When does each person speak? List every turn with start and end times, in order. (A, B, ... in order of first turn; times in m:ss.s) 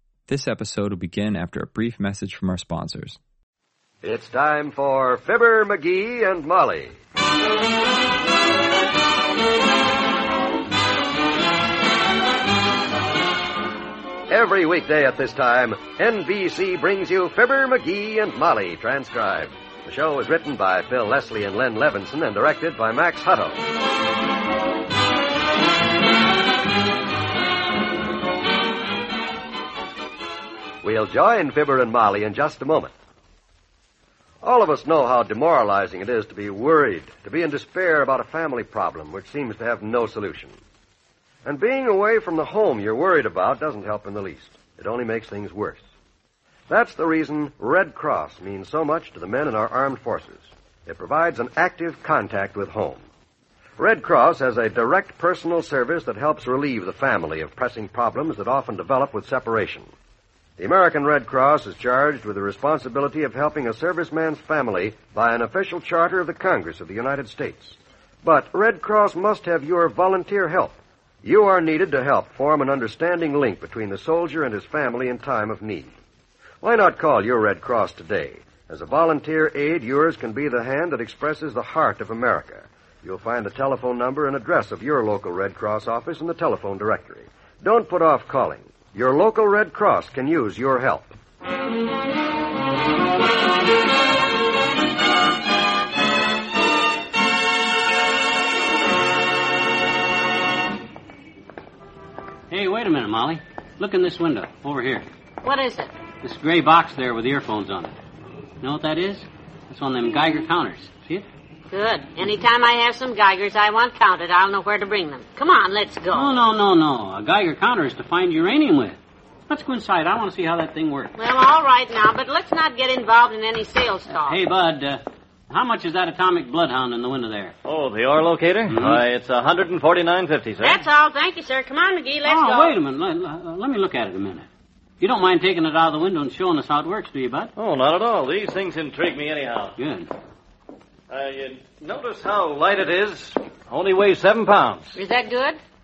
0:00.3-0:03.2 A
0:04.0-0:07.0 B
0:14.3-0:23.6 B
0:30.8-0:32.9 B
0:34.4-0:40.6 B
0:41.4-0:45.8 B
0:46.7-0:53.0 B
0:53.8-0:59.9 B
1:00.6-1:15.9 B
1:16.6-1:31.1 B
1:42.5-1:45.1 C
1:45.4-1:45.9 D
1:46.2-1:47.9 C
1:48.6-1:51.2 C
1:51.7-1:56.4 D
1:56.1-1:59.0 C
1:59.5-2:01.1 C
2:01.2-2:04.4 D
2:04.1-2:07.5 C
2:07.6-2:10.8 E
2:08.7-2:09.0 C
2:10.6-2:12.7 D
2:12.2-2:14.5 C
2:15.0-2:17.5 C
2:17.6-2:19.8 E
2:19.8-2:20.1 C
2:21.1-2:25.0 E
2:25.0-2:25.6 D